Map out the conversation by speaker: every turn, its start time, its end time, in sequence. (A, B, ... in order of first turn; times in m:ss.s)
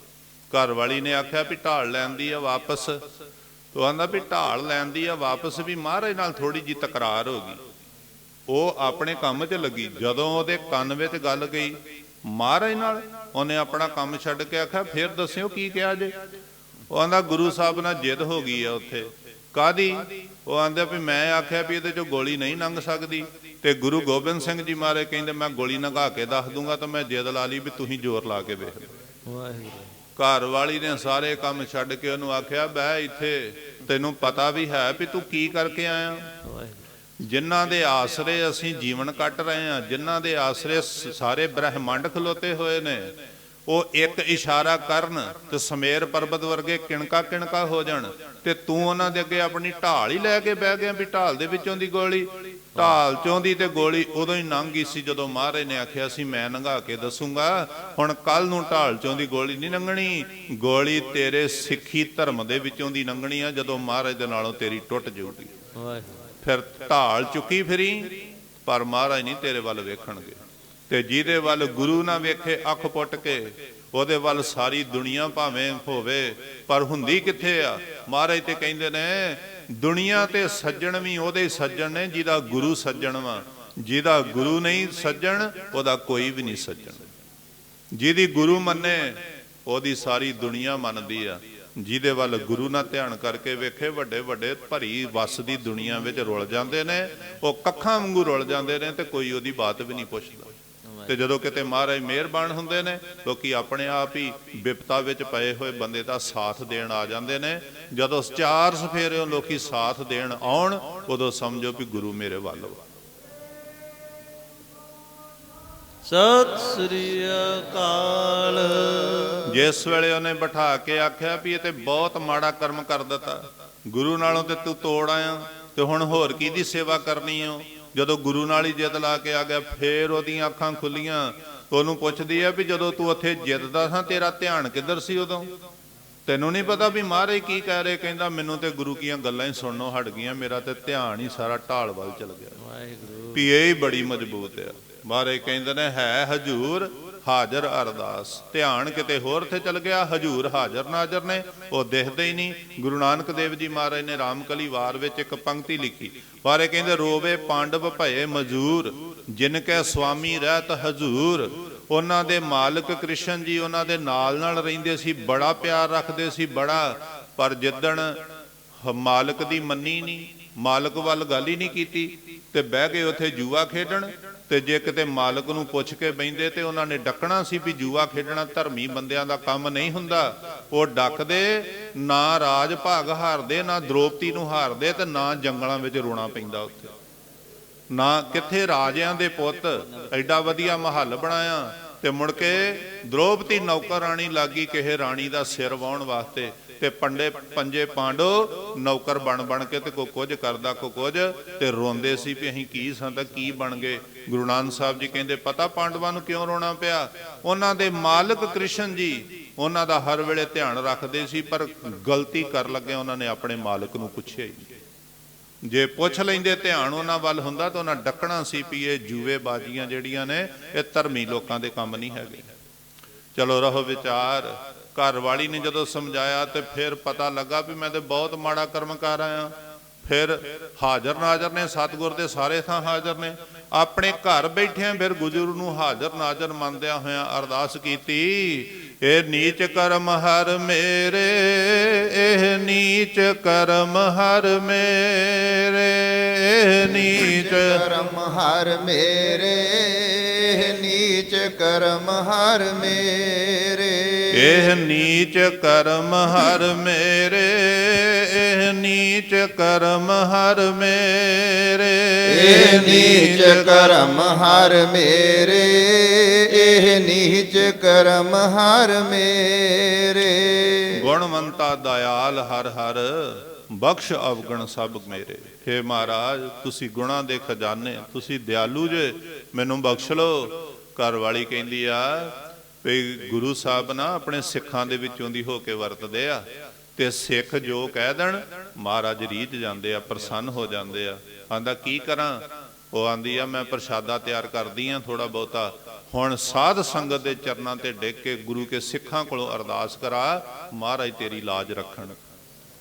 0:00.5-0:03.0 A
0:03.7-0:07.6 A
0:08.5-0:16.2 A
0:16.9-0:28.9 A
0:29.2-0:29.9 B
0:30.2-0:36.3 A
0:36.4-0:36.8 B
0:37.2-0:43.1 A
0:43.7-1:05.5 A
1:05.8-1:06.2 B
1:06.4-1:27.1 A
1:27.9-1:40.5 A
1:41.1-1:52.8 A
1:56.0-1:59.5 B
1:59.4-2:15.5 A
2:16.2-2:22.6 A
2:22.6-2:23.4 B
2:23.3-2:48.2 A
2:48.8-3:06.9 A
3:07.9-3:34.8 A
3:35.6-3:42.5 A
3:43.3-4:07.8 A
4:06.8-4:14.7 C
4:14.3-4:23.9 A
4:22.2-4:31.0 C
4:30.9-5:02.2 A